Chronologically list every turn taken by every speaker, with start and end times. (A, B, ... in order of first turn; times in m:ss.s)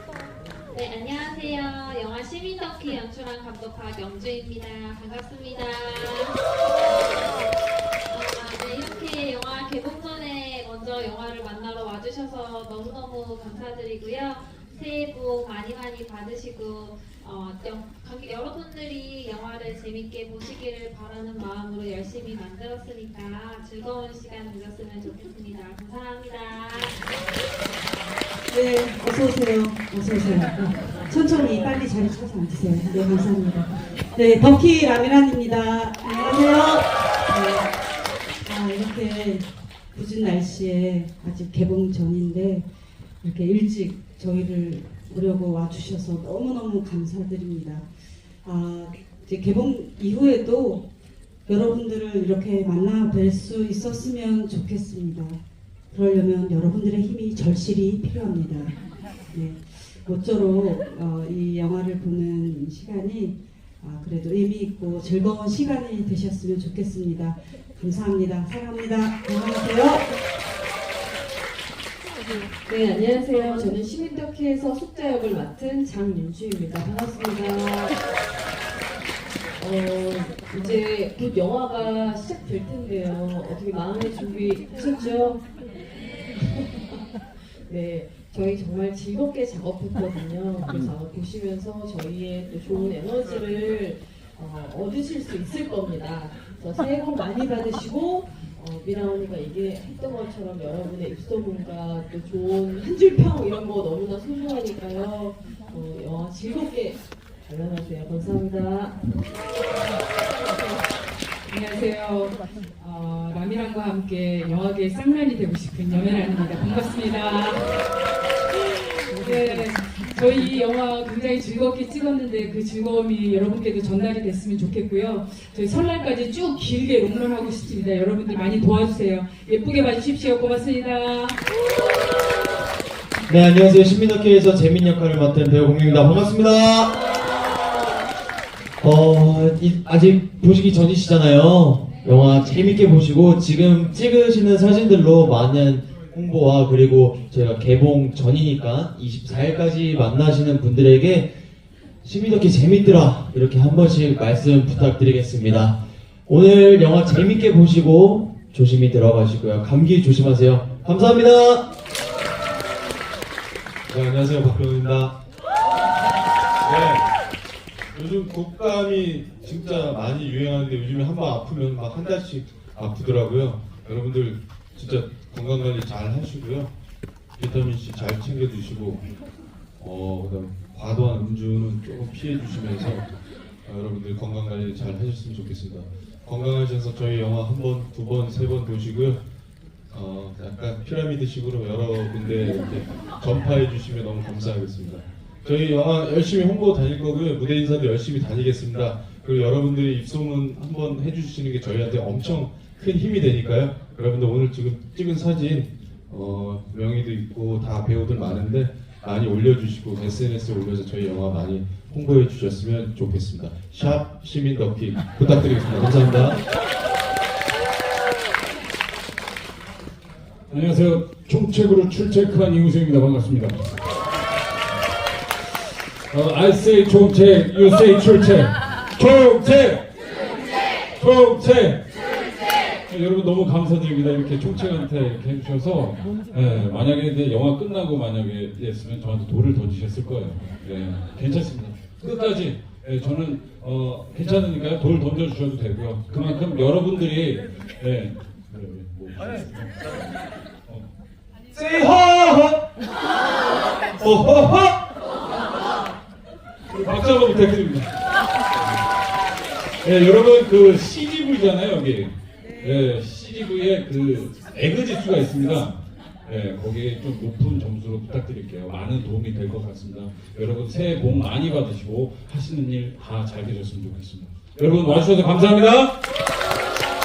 0:00.7-0:06.4 A
0:08.1-0:27.0 A
0:28.5-0:37.7 B
0:38.4-0:42.7 B
0:43.2-0:47.9 B
0:48.4-0:50.9 B
0:51.5-0:55.4 B
0:55.9-0:58.8 B
0:59.3-1:10.1 B
1:12.6-1:18.0 C
1:19.6-1:25.5 C
1:26.4-1:49.0 C
1:51.5-1:57.7 D
1:58.6-2:11.4 D
2:13.3-2:15.4 E
2:14.0-2:16.4 F
2:16.5-2:17.0 E
2:18.9-2:31.3 E
2:25.9-2:26.2 F
2:32.0-2:41.7 E
2:43.9-2:45.2 F
2:46.6-2:47.1 F
2:47.9-2:56.7 F
2:57.4-2:59.0 F
2:59.8-3:03.1 F
3:03.6-3:09.2 F
3:09.9-3:36.4 F
3:40.5-3:43.8 G
3:46.1-3:49.8 G
3:51.0-3:51.8 G
3:52.9-4:09.7 G
4:11.5-4:12.6 G
4:14.0-4:14.8 G
4:16.7-4:17.9 G
4:19.8-4:36.0 G